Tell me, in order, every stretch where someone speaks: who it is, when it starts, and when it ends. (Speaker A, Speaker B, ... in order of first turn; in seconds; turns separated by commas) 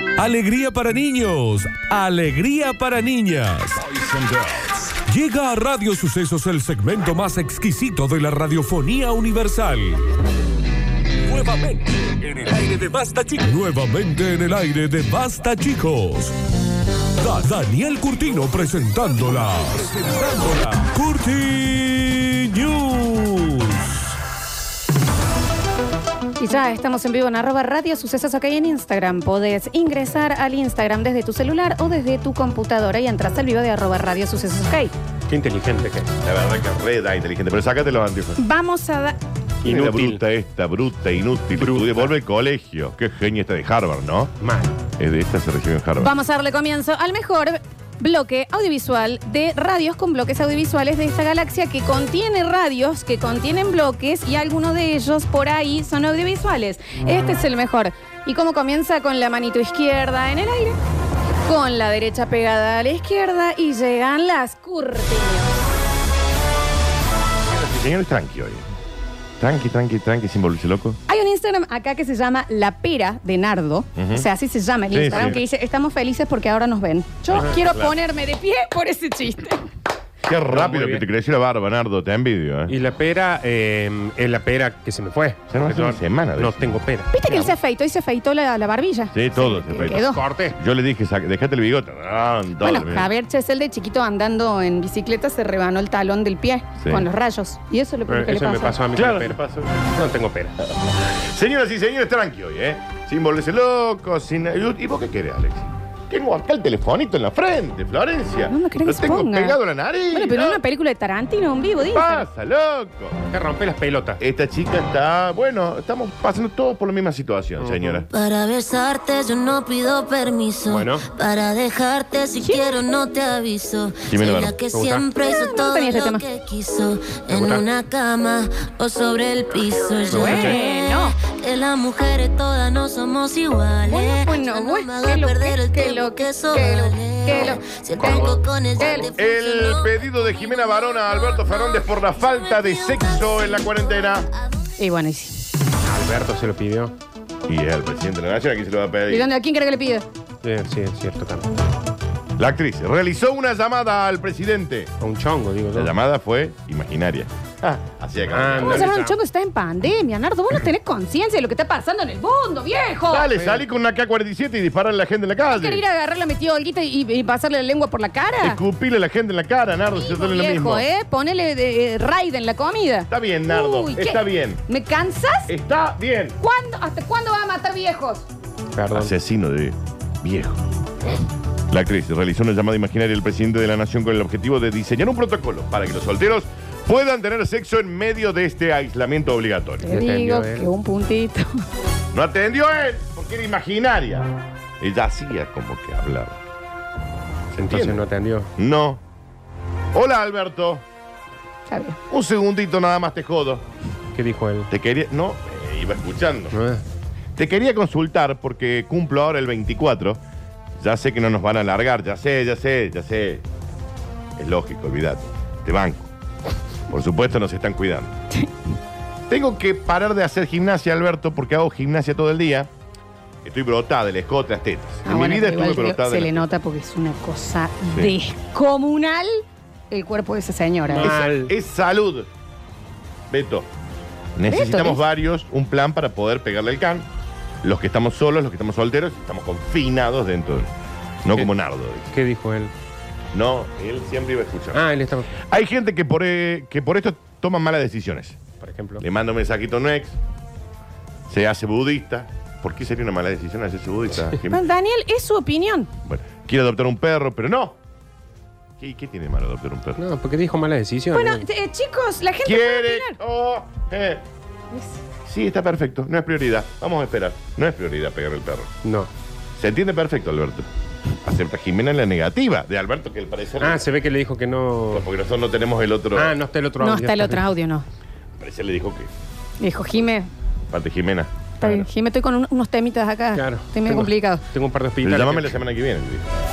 Speaker A: 0.2-10.0, Speaker A: 11.2-16.3, Speaker A: 17.2-24.1, Speaker B: 26.4-34.9, Speaker C: 35.3-36.1, Speaker D: 36.2-38.4, Speaker B: 38.4-39.2, Speaker C: 39.6-40.2, Speaker D: 39.6-44.3, Speaker C: 41.6-42.1, Speaker C: 44.4-44.8, Speaker D: 45.0-46.1, Speaker B: 46.0-60.8, Speaker B: 61.4-65.5, Speaker D: 67.5-68.6, Speaker D: 69.4-71.0, Speaker B: 71.1-79.7, Speaker D: 74.0-74.3, Speaker D: 74.9-75.4, Speaker D: 77.3-78.0, Speaker D: 80.2-82.8, Speaker C: 80.5-81.0, Speaker C: 82.7-87.5, Speaker D: 85.5-86.8, Speaker B: 87.1-90.2, Speaker D: 89.1-93.1, Speaker C: 89.9-90.6, Speaker B: 92.6-98.8, Speaker D: 96.8-97.1, Speaker C: 98.1-99.4, Speaker D: 98.9-99.9, Speaker C: 99.9-100.6, Speaker D: 100.6-110.6, Speaker B: 108.4-109.6, Speaker B: 110.1-112.3, Speaker D: 111.8-113.2, Speaker C: 113.3-114.2, Speaker D: 114.2-118.1, Speaker C: 117.6-118.0, Speaker E: 118.1-140.0, Speaker C: 120.7-121.1, Speaker B: 122.3-122.8, Speaker D: 124.1-124.5, Speaker C: 124.7-125.0, Speaker B: 125.2-126.3, Speaker C: 127.3-127.7, Speaker C: 130.1-130.6, Speaker B: 130.1-131.2, Speaker B: 133.8-139.2, Speaker C: 137.4-139.1, Speaker D: 139.1-144.3, Speaker E: 140.5-143.6, Speaker B: 144.8-145.4, Speaker C: 145.8-146.9, Speaker D: 147.4-149.3, Speaker B: 149.1-150.1, Speaker C: 150.4-151.5, Speaker D: 152.4-154.9, Speaker C: 155.0-155.9, Speaker D: 155.7-158.9, Speaker C: 158.3-159.2, Speaker B: 158.6-163.3, Speaker D: 163.1-165.8, Speaker C: 163.3-163.6, Speaker B: 165.5-168.6, Speaker D: 168.4-170.8, Speaker B: 169.9-175.5, Speaker D: 173.1-174.6, Speaker D: 175.5-176.4, Speaker B: 176.4-178.2, Speaker C: 178.8-179.1, Speaker D: 178.9-180.6, Speaker D: 181.7-189.9, Speaker B: 189.8-191.5, Speaker C: 189.9-190.7, Speaker D: 192.1-194.3, Speaker D: 194.8-196.4, Speaker D: 197.5-198.0, Speaker C: 197.6-198.5, Speaker D: 198.6-199.0, Speaker D: 199.9-200.8, Speaker B: 201.7-202.0, Speaker D: 202.1-203.7, Speaker C: 204.2-204.7, Speaker D: 204.7-206.6, Speaker C: 206.5-206.8, Speaker D: 207.4-210.2, Speaker D: 210.8-213.4, Speaker D: 214.4-216.1, Speaker D: 216.9-218.1, Speaker D: 219.3-222.7, Speaker D: 223.4-226.4, Speaker B: 225.0-231.2, Speaker C: 230.9-231.5, Speaker D: 231.0-232.3, Speaker D: 233.3-233.7, Speaker D: 234.3-237.1, Speaker B: 234.5-235.0, Speaker D: 237.6-240.7, Speaker D: 241.2-242.1, Speaker C: 242.1-242.7, Speaker D: 243.3-244.8, Speaker C: 244.7-245.4, Speaker D: 245.4-248.4, Speaker C: 248.6-249.0, Speaker D: 249.0-250.2, Speaker D: 251.3-254.6, Speaker B: 254.5-255.9, Speaker D: 256.1-257.8, Speaker D: 258.8-260.0, Speaker C: 260.0-261.4, Speaker B: 261.1-263.2, Speaker D: 262.4-264.2, Speaker B: 264.7-265.0, Speaker D: 265.3-268.7, Speaker C: 268.8-269.1, Speaker D: 269.6-270.7, Speaker D: 271.2-273.8, Speaker C: 273.6-275.1, Speaker D: 274.9-276.4, Speaker C: 276.1-277.4, Speaker B: 276.8-277.9, Speaker D: 278.4-279.1, Speaker B: 279.6-280.3, Speaker D: 280.7-281.9, Speaker B: 281.6-284.4, Speaker C: 283.4-285.6, Speaker D: 285.0-286.3